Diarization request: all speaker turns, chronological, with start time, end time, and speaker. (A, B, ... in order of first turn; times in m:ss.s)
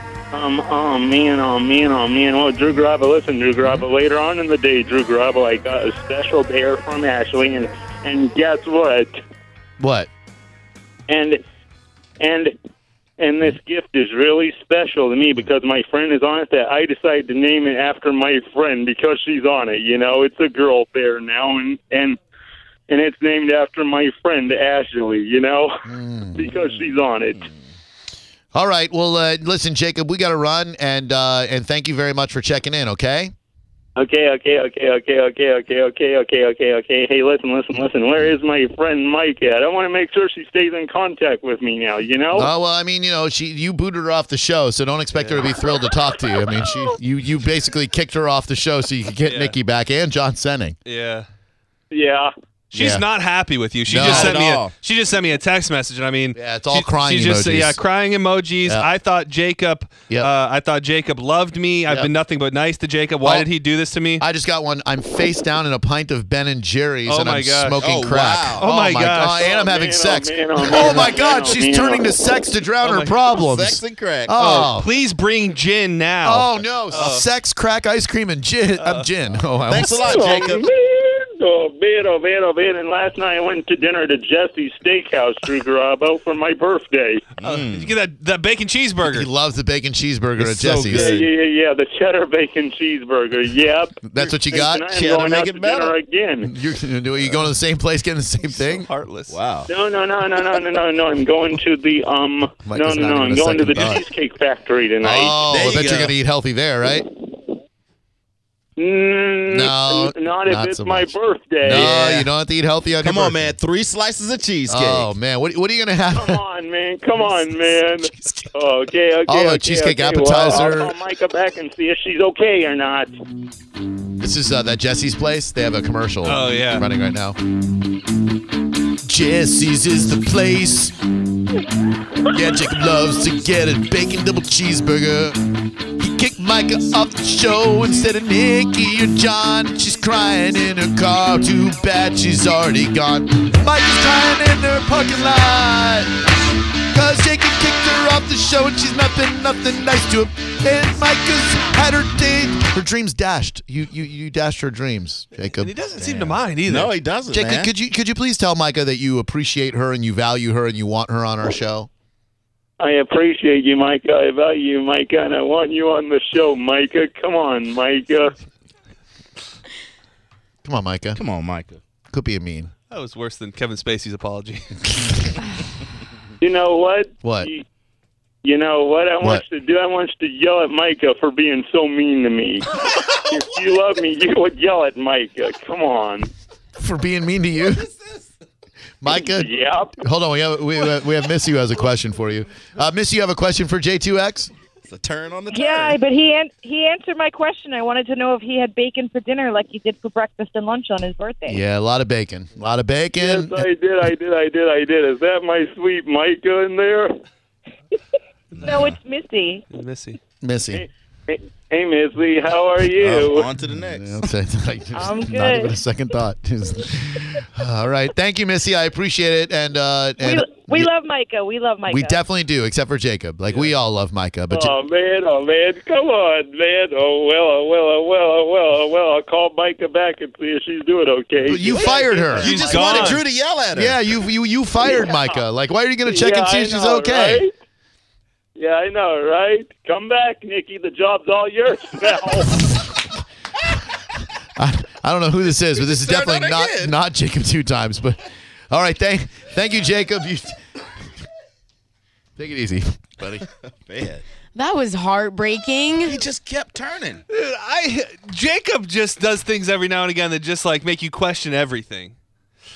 0:00.3-0:09.1 A
0:09.8-0:10.1 B
0:11.1-0:11.4 A
0:12.2-0:12.5 A
0:13.2-0:22.2 A
0:22.9-0:25.8 A
0:25.9-0:26.4 B
0:26.3-0:27.5 A
0:28.5-0:33.3 B
0:34.0-0:42.5 A
0:42.3-0:50.8 B
0:45.1-0:45.4 C
0:46.3-0:46.9 A
0:49.2-0:49.6 C
0:50.9-0:51.3 C
0:51.9-0:52.3 A
0:52.7-1:04.2 C
0:52.8-0:53.0 B
0:53.9-0:54.4 B
0:54.0-0:54.7 D
0:56.4-0:57.8 B
1:03.2-1:03.5 B
1:04.2-1:14.9 B
1:07.0-1:07.9 C
1:07.8-1:08.7 D
1:08.6-1:09.4 C
1:09.4-1:12.1 A
1:10.8-1:11.2 C
1:12.8-1:13.2 C
1:13.4-1:14.4 D
1:14.4-1:17.3 C
1:16.2-1:20.4 B
1:18.8-1:19.1 C
1:19.7-1:20.7 D
1:20.0-1:27.3 A
1:27.4-1:28.0 D
1:27.4-1:29.3 C
1:29.0-1:31.2 B
1:30.4-1:31.3 D
1:30.9-1:36.5 A
1:34.0-1:34.9 B
1:34.9-1:35.9 D
1:36.4-1:38.9 B
1:38.5-1:39.4 C
1:39.3-1:39.7 D
1:39.7-1:45.6 A
1:42.6-1:44.0 B
1:45.0-1:47.2 B
1:45.5-1:46.2 D
1:48.8-1:51.9 A
1:49.5-1:53.5 B
1:51.6-1:52.3 D
1:53.0-1:55.1 D
1:54.7-1:56.4 B
1:56.1-2:03.1 A
1:58.0-1:58.5 B
1:59.3-2:00.9 B
2:04.2-2:07.4 B
2:06.2-2:06.8 C
2:09.0-2:11.0 B
2:12.3-2:26.1 B
2:26.9-2:36.4 B
2:35.4-2:36.9 C
2:36.7-2:37.7 D
2:37.3-2:41.9 B
2:42.8-2:48.4 A
2:50.6-2:51.2 B
2:51.2-2:51.8 D
2:52.1-2:52.7 B
2:52.9-2:54.9 C
2:56.4-2:57.6 A
2:57.2-2:57.5 B
2:58.4-3:06.3 A
3:02.8-3:03.4 D
3:06.8-3:07.9 B
3:07.6-3:08.3 D
3:09.0-3:14.5 B
3:09.1-3:10.0 A
3:14.9-3:16.0 D
3:15.5-3:21.6 E
3:21.5-3:23.7 B
3:23.2-3:27.1 A
3:28.6-3:29.0 D
3:28.6-3:29.6 E
3:29.7-3:30.2 C
3:30.4-3:30.8 B
3:30.7-3:33.5 A
3:33.0-3:34.2 D
3:33.7-3:40.9 B
3:34.9-3:35.8 E
3:40.2-3:42.2 E
3:41.9-3:44.7 B
3:44.5-3:53.1 A
3:51.5-3:52.6 B
3:51.5-3:54.0 D
3:52.4-3:53.2 C
3:53.8-3:57.4 B
3:54.8-3:55.4 A
3:56.0-3:57.5 A
3:58.6-4:02.9 A
4:04.6-4:10.6 B
4:05.8-4:07.0 D
4:12.4-4:13.5 B
4:13.8-4:14.2 D
4:14.5-4:16.2 E
4:16.0-4:17.2 D
4:17.3-4:22.1 C